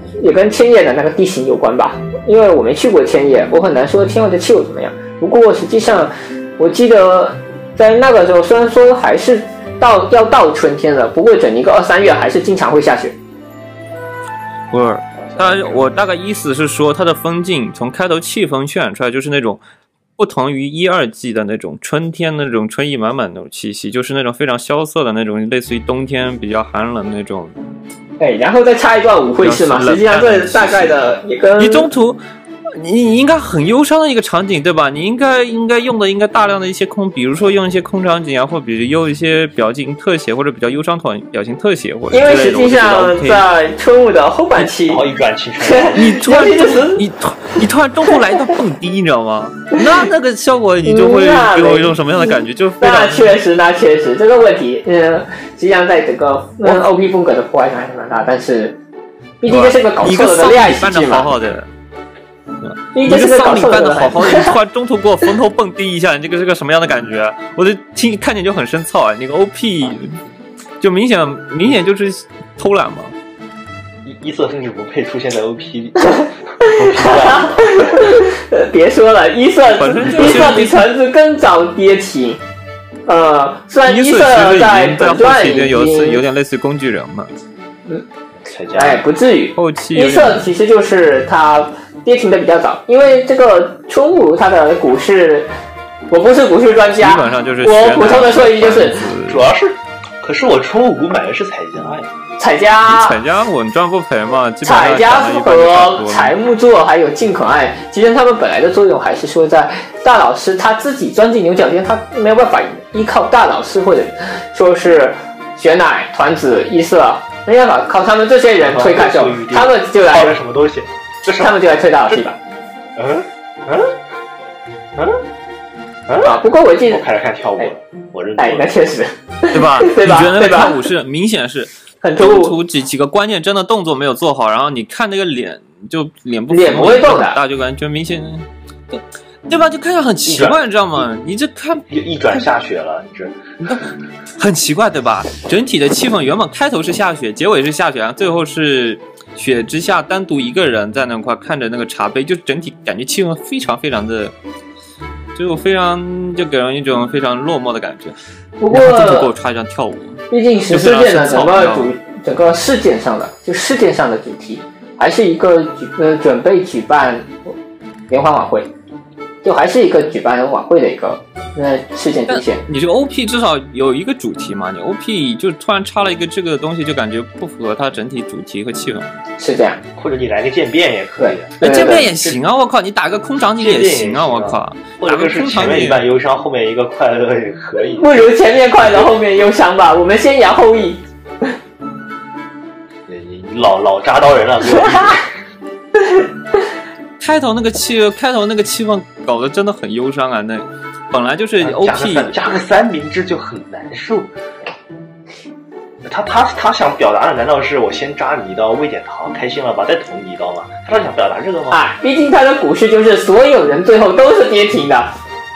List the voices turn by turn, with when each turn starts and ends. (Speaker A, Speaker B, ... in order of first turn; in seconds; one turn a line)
Speaker A: 0.2-13.2
Speaker B: 14.7-19.6
Speaker C: 15.2-16.1
Speaker B: 20.2-27.5
Speaker A: 28.2-31.9
Speaker B: 29.4-32.2
Speaker B: 32.7-43.5
Speaker A: 42.1-45.0
Speaker C: 44.8-46.1
Speaker A: 45.6-47.0
Speaker B: 45.9-53.4
Speaker A: 50.8-58.8
Speaker A: 59.4-61.3
Speaker B: 59.5-61.7
Speaker B: 62.6-70.2
Speaker A: 62.9-64.5
Speaker B: 70.8-73.1
Speaker C: 74.0-78.2
Speaker A: 76.6-82.4
Speaker B: 79.8-80.9
Speaker A: 83.1-86.2
Speaker B: 83.8-87.3
Speaker C: 88.4-89.0
Speaker A: 88.7-95.5
Speaker B: 89.5-90.5
Speaker A: 96.1-99.0
Speaker B: 96.9-99.5
Speaker C: 99.2-102.1
Speaker A: 102.4-103.2
Speaker B: 102.8-106.3
Speaker A: 104.6-120.4
Speaker C: 118.6-122.2
Speaker A: 121.4-122.4
Speaker C: 123.0-124.0
Speaker C: 126.1-128.8
Speaker A: 126.2-127.0
Speaker A: 128.4-130.8
Speaker B: 129.5-142.4
Speaker A: 132.0-132.6
Speaker A: 136.5-137.4
Speaker C: 140.2-140.6
Speaker C: 141.9-143.4
Speaker B: 144.4-154.3
Speaker B: 155.3-158.1
Speaker A: 158.6-159.3
Speaker B: 158.7-161.9
Speaker A: 160.3-167.5
Speaker A: 168.1-168.7
Speaker A: 169.4-172.6
Speaker B: 172.3-179.2
Speaker A: 179.4-179.8
Speaker C: 180.0-182.4
Speaker A: 181.2-182.1
Speaker B: 181.6-186.0
Speaker C: 183.6-188.3
Speaker A: 188.0-191.5
Speaker C: 193.1-195.3
Speaker B: 197.2-202.3
Speaker C: 201.6-204.3
Speaker C: 206.0-211.8
Speaker A: 211.7-215.1